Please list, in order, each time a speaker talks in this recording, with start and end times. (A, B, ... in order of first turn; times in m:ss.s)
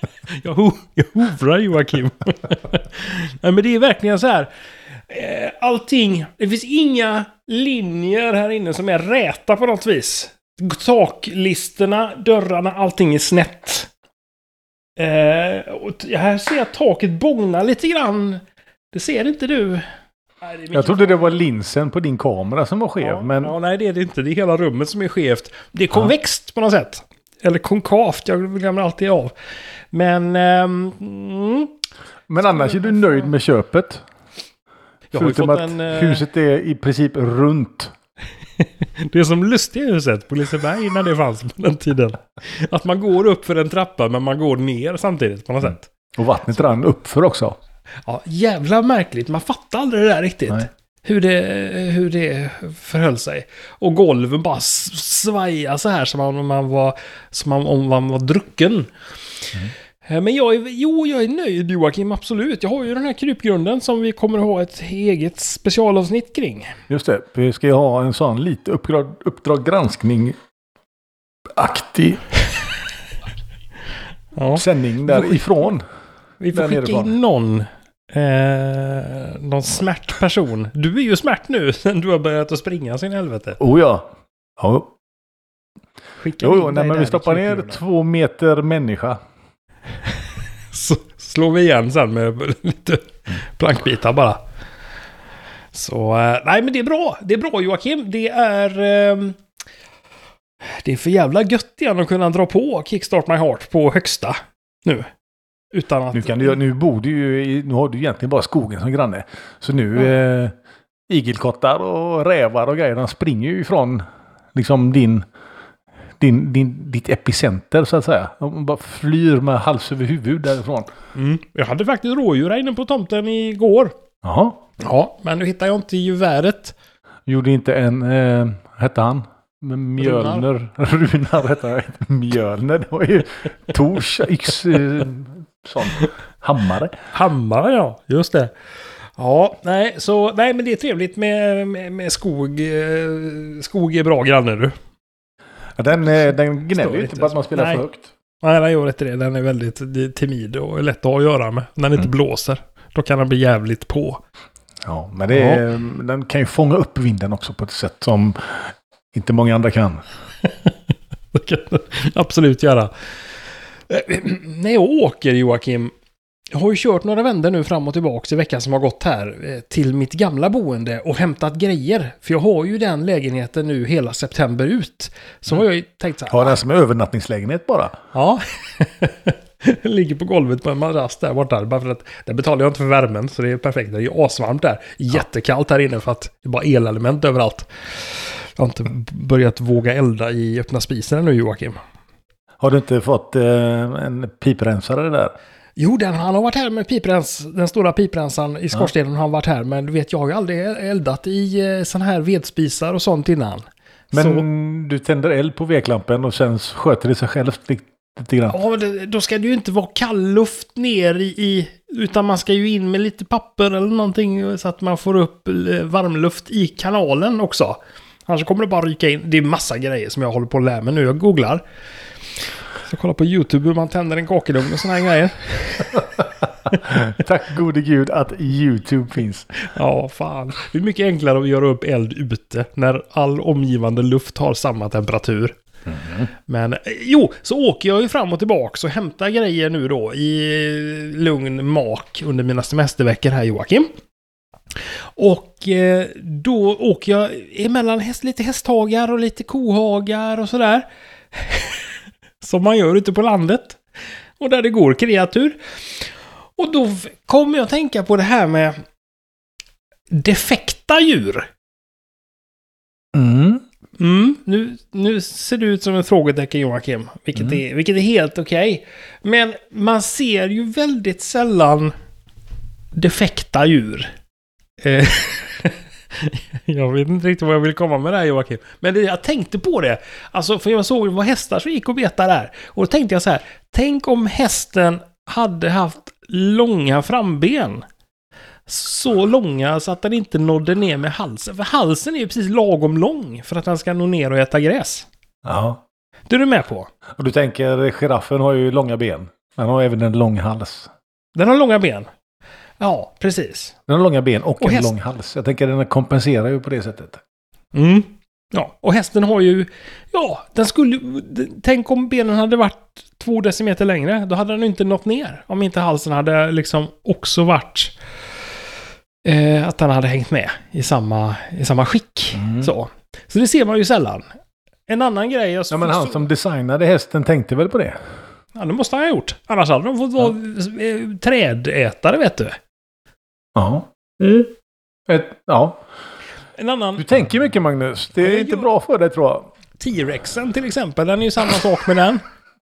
0:00.3-0:13.9 A
0:15.0-0:19.9 A
0:20.4-0:21.1 A
0:20.7-0:23.6 B
0:23.0-0:29.4 A
0:29.9-0:31.7 A
0:32.3-0:34.0 B
0:32.4-0:33.3 A
0:35.1-0:36.2 A
0:35.2-0:37.9 B
0:38.6-0:45.8 A
0:46.2-0:47.6 B
0:48.0-0:59.4 A
1:00.0-1:06.7 A
1:06.9-1:10.4 B
1:11.6-1:12.2 B
1:14.4-1:15.4 A
1:14.6-1:15.8 B
1:16.4-1:23.6 A
1:16.5-1:17.1 B
1:23.6-1:24.9 B
1:26.2-1:27.8 A
1:26.4-1:29.2 B
1:30.7-1:34.4 A
1:35.7-1:39.4 A
1:40.6-1:45.1 A
1:45.7-1:46.6 A
1:46.1-1:50.6 B
1:51.1-1:55.3 B
1:56.2-2:00.9 B
2:01.2-2:04.0 A
2:04.2-2:04.6 B
2:04.8-2:06.8 A
2:07.3-2:17.0 B
2:10.0-2:10.4 A
2:17.1-2:18.5 A
2:19.2-2:24.8 A
2:25.8-2:28.1 B
2:26.7-2:27.8 A
2:28.4-2:34.2 A
2:34.9-2:40.0 B
2:35.3-2:35.6 A
2:40.4-2:40.7 A
2:41.3-2:43.1 A
2:43.9-2:45.9 A
2:46.5-2:56.6 A
2:56.3-2:58.0 B
2:58.1-3:11.8 A
3:12.6-3:15.4 B
3:15.8-3:24.4 A
3:24.1-3:28.6 B
3:28.5-3:41.6 A
3:42.8-3:46.1 A
3:46.7-3:49.6 B
3:49.7-3:55.6 A
3:55.9-3:56.3 B
3:56.5-4:03.9 A
4:04.8-4:13.8 A
4:14.4-4:18.8 A
4:20.1-4:21.5 A
4:23.1-4:23.6 B
4:24.0-4:31.9 A
4:32.9-4:34.1 A
4:34.8-4:47.9 A
4:48.7-4:55.1 A
4:55.4-4:55.8 B
4:56.3-4:56.9 A
4:57.2-5:00.9 B
5:01.4-5:02.1 A
5:02.8-5:03.8 A
5:03.9-5:07.2 B
5:04.6-5:04.9 A
5:07.7-5:18.0 A
5:19.2-5:24.3 A
5:22.4-5:22.7 B
5:24.9-5:26.3 A
5:25.7-5:28.1 B
5:28.6-5:32.6 A
5:33.6-5:33.9 B
5:34.2-5:34.5 A
5:35.1-5:35.8 B
5:36.6-5:37.0 A
5:37.0-5:39.5 B
5:38.2-5:38.7 A
5:39.8-5:42.2 A